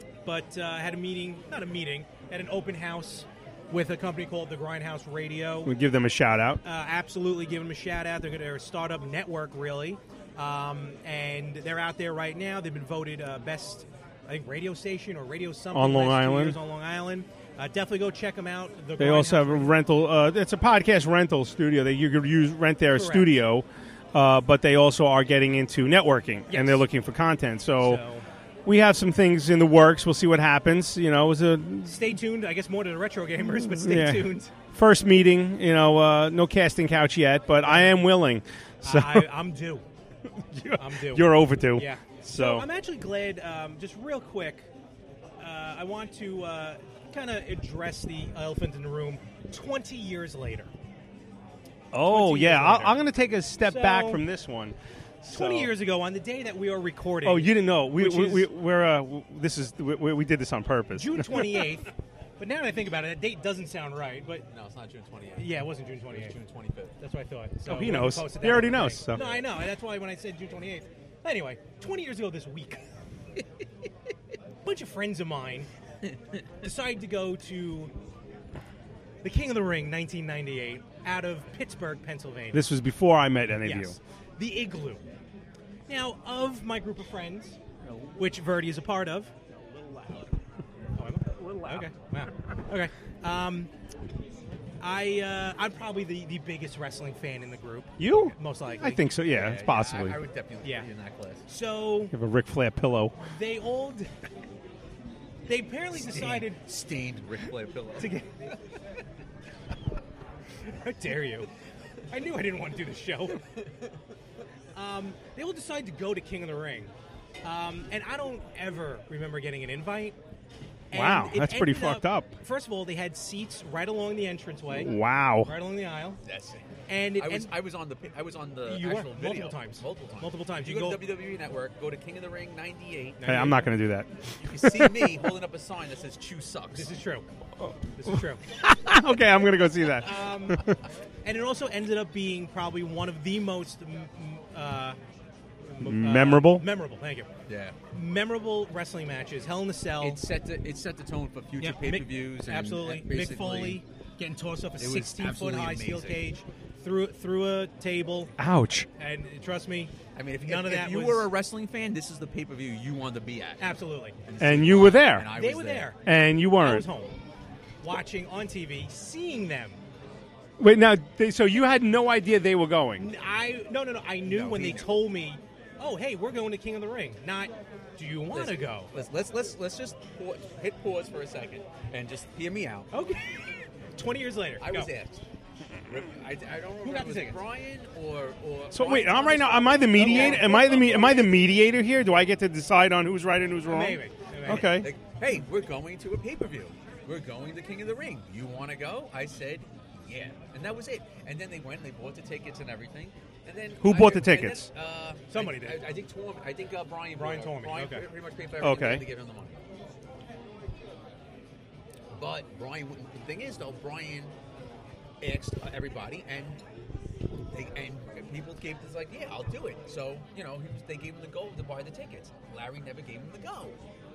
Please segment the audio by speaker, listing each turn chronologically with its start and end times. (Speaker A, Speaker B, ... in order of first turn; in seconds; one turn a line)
Speaker A: 0.2-5.7
Speaker B: 5.7-6.6
Speaker A: 6.6-19.7
Speaker B: 15.7-16.6
Speaker B: 19.0-28.0
Speaker A: 22.9-23.4
Speaker A: 26.5-26.8
Speaker A: 27.8-28.2
Speaker B: 28.6-32.0
Speaker A: 31.8-34.5
Speaker B: 33.6-39.3
Speaker A: 37.6-38.0
Speaker A: 38.8-39.8
Speaker B: 40.5-42.7
Speaker A: 40.8-44.7
Speaker A: 45.4-50.7
Speaker B: 51.9-55.7
Speaker A: 52.0-53.0
Speaker A: 53.6-54.2
Speaker A: 55.3-58.5
Speaker B: 57.2-61.6
Speaker A: 60.9-61.9
Speaker A: 62.4-64.5
Speaker C: 64.5-66.9
Speaker A: 65.4-66.3
Speaker A: 67.0-72.8
Speaker B: 67.6-69.2
Speaker C: 69.1-69.5
Speaker A: 74.6-75.7
Speaker A: 76.6-77.9
Speaker A: 79.2-82.7
Speaker B: 82.5-84.0
Speaker A: 83.6-85.0
Speaker A: 85.9-87.6
Speaker A: 88.2-90.2
Speaker A: 91.0-93.7
Speaker A: 94.8-99.0
Speaker B: 98.0-100.2
Speaker C: 99.3-101.4
Speaker A: 101.5-102.1
Speaker B: 102.1-103.1
Speaker A: 103.2-104.1
Speaker A: 105.5-106.6
Speaker C: 105.9-108.2
Speaker A: 108.0-108.2
Speaker A: 110.8-111.5
Speaker A: 112.1-113.4
Speaker A: 114.7-116.9
Speaker A: 117.4-120.2
Speaker A: 120.9-124.9
Speaker B: 120.9-122.3
Speaker B: 124.7-125.5
Speaker A: 125.4-126.2
Speaker C: 126.2-133.2
Speaker A: 126.9-127.5
Speaker A: 128.7-131.0
Speaker A: 133.2-133.7
Speaker B: 133.2-135.1
Speaker C: 134.4-136.9
Speaker A: 136.7-137.2
Speaker B: 137.6-140.8
Speaker A: 138.0-138.4
Speaker A: 140.0-140.7
Speaker A: 141.2-145.0
Speaker A: 145.7-147.3
Speaker B: 145.8-146.6
Speaker C: 147.5-147.8
Speaker A: 147.9-150.2
Speaker C: 150.0-153.8
Speaker A: 151.6-158.3
Speaker C: 154.8-156.3
Speaker B: 158.4-158.9
Speaker A: 159.0-161.3
Speaker C: 160.1-165.9
Speaker A: 163.6-164.2
Speaker B: 164.4-165.3
Speaker A: 165.3-166.0
Speaker B: 166.0-166.8
Speaker A: 166.6-167.1
Speaker A: 167.8-169.8
Speaker B: 170.6-173.0
Speaker A: 173.0-178.9
Speaker C: 174.3-175.1
Speaker C: 178.3-182.9
Speaker A: 182.9-184.9
Speaker C: 184.6-185.2
Speaker C: 185.9-191.4
Speaker A: 186.8-187.4
Speaker B: 188.7-194.9
Speaker A: 189.8-191.1
Speaker A: 193.7-194.8
Speaker C: 194.4-209.6
Speaker B: 203.8-204.7
Speaker A: 205.3-205.8
Speaker A: 207.2-208.0
Speaker B: 208.6-209.0
Speaker C: 212.1-214.3
Speaker C: 215.2-216.6
Speaker C: 217.5-223.8